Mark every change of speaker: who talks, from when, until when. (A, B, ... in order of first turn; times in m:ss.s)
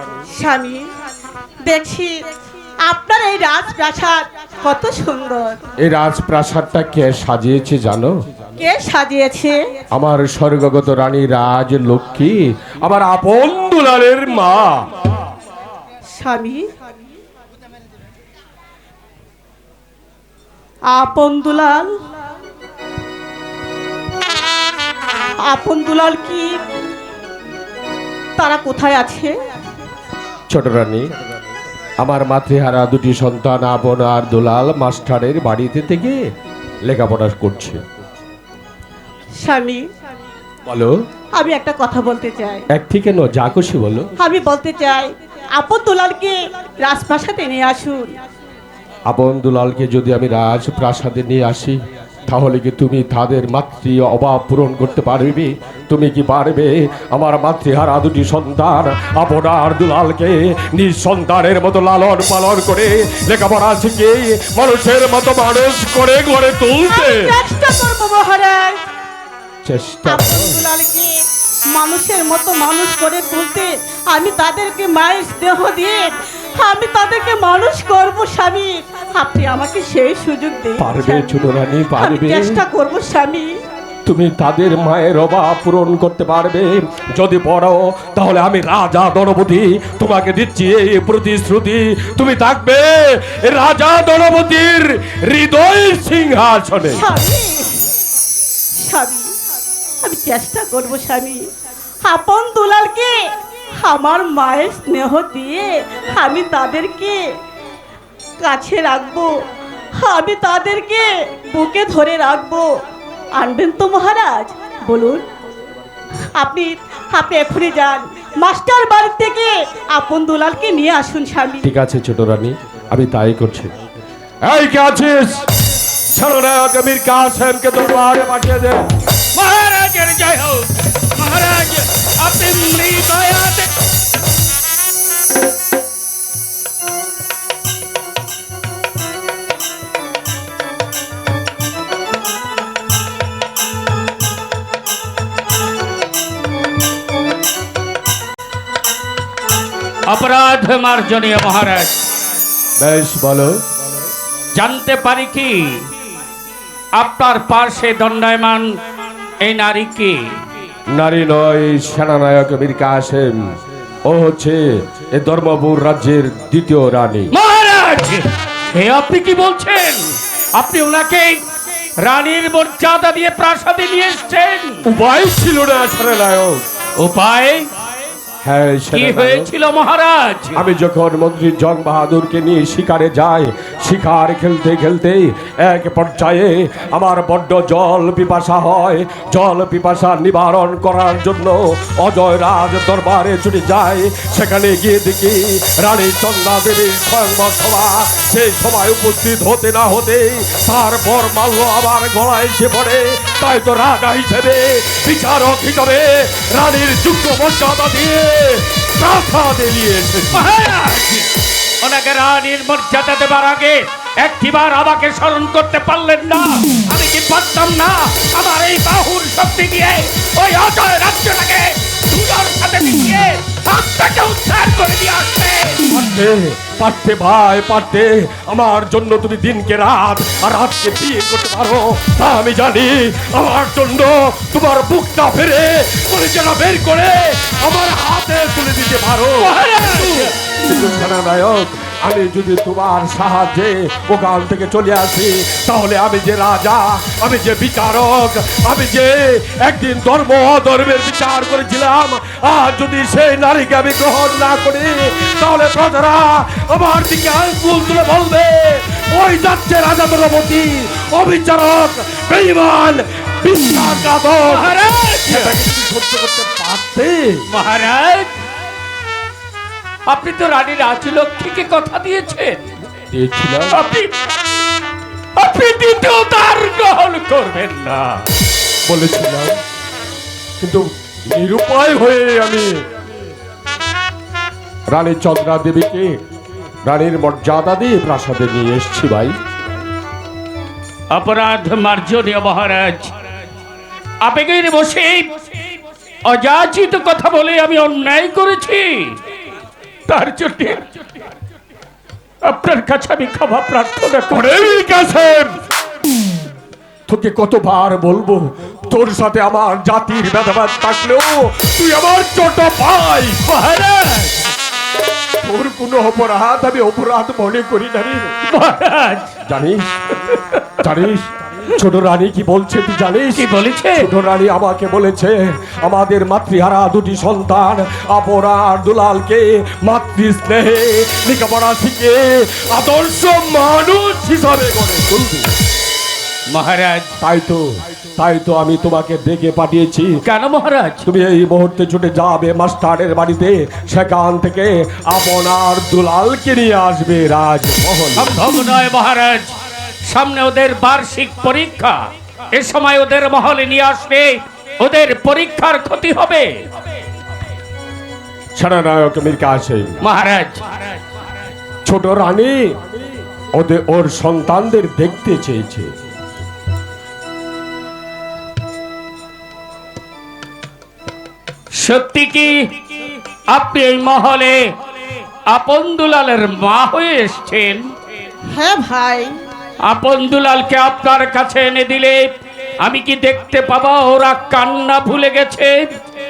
0:00.3-0:00.8 A
0:01.6-0:02.2 A
0:02.9-0:05.6 A
0:05.8-0:08.1 B
0:08.6-0:09.6 A
0:09.9-0:14.9 B
0:16.2-0:16.6 A
0:20.9-0:21.9 A
0:25.5-0:26.5 A
0:28.4-0:29.3 A
0:30.5-0:31.1 B
0:32.0-0:36.2 B
0:36.8-0:37.8 B
0:39.4-0:39.8 A
0:40.6-0:40.9 B
0:41.4-0:42.6 A
0:42.7-0:44.1 B
0:44.2-0:48.1 A
0:49.1-0:51.8 B
0:52.3-1:07.4 B
1:06.8-1:08.8 A
1:09.6-1:10.7 B
1:10.0-1:11.1 A
1:11.7-1:23.5 A
1:20.8-1:22.6 B
1:24.0-1:37.0 B
1:36.9-1:37.9 A
1:38.8-1:39.3 A
1:40.0-1:41.4 A
1:42.0-1:43.2 A
1:43.8-1:47.2 A
1:48.4-1:49.3 A
1:50.0-1:52.7 A
1:53.4-1:55.2 A
1:56.4-2:01.7 A
2:01.6-2:03.7 B
2:04.4-2:08.9 B
2:09.3-2:13.7 C
2:30.1-2:31.9 C
2:32.8-2:33.5 B
2:34.6-2:35.8 C
2:37.0-2:38.7 C
2:39.4-2:40.2 C
2:40.9-2:47.3 B
2:47.3-2:51.4 C
2:52.0-2:54.8 C
2:54.9-2:56.6 B
2:57.0-2:57.7 C
2:58.4-2:59.5 B
2:58.9-3:00.6 C
3:00.5-3:30.5 B
3:30.3-3:31.3 C
3:31.8-3:45.9 C
3:45.9-4:27.4 B
3:59.4-4:00.3 C
4:24.5-4:25.6 C
4:27.5-4:28.3 C
4:30.1-4:32.6 C
4:33.1-4:33.8 B
4:33.7-4:34.1 C
4:35.4-4:38.2 C
4:38.9-4:39.5 B
4:40.6-4:42.8 B
4:44.9-4:46.2 B
4:46.8-4:49.3 B
4:51.1-4:53.1 C
4:54.2-4:55.4 C
4:56.2-4:59.2 C
5:00.1-5:00.8 C
5:02.4-5:05.1 C
5:04.3-5:05.5 B
5:07.1-5:13.4 B
5:13.4-5:14.4 C
5:15.4-5:18.3 B
5:18.5-5:19.3 C
5:19.4-5:19.9 B
5:20.8-5:35.5 B
5:23.3-5:24.1 C
5:36.5-5:37.2 C
5:37.2-5:40.1 B
5:40.2-5:41.1 C
5:41.0-5:48.4 B
5:48.2-5:52.0 C
5:52.5-5:56.5 C
5:58.6-6:00.0 B
6:00.0-6:00.7 C
6:01.8-6:02.8 B
6:03.5-6:05.9 B
6:11.8-6:12.5 C
6:13.5-6:14.6 C
6:15.5-6:17.9 C
6:18.5-6:19.3 A
6:19.9-6:22.3 C
6:22.8-6:25.8 C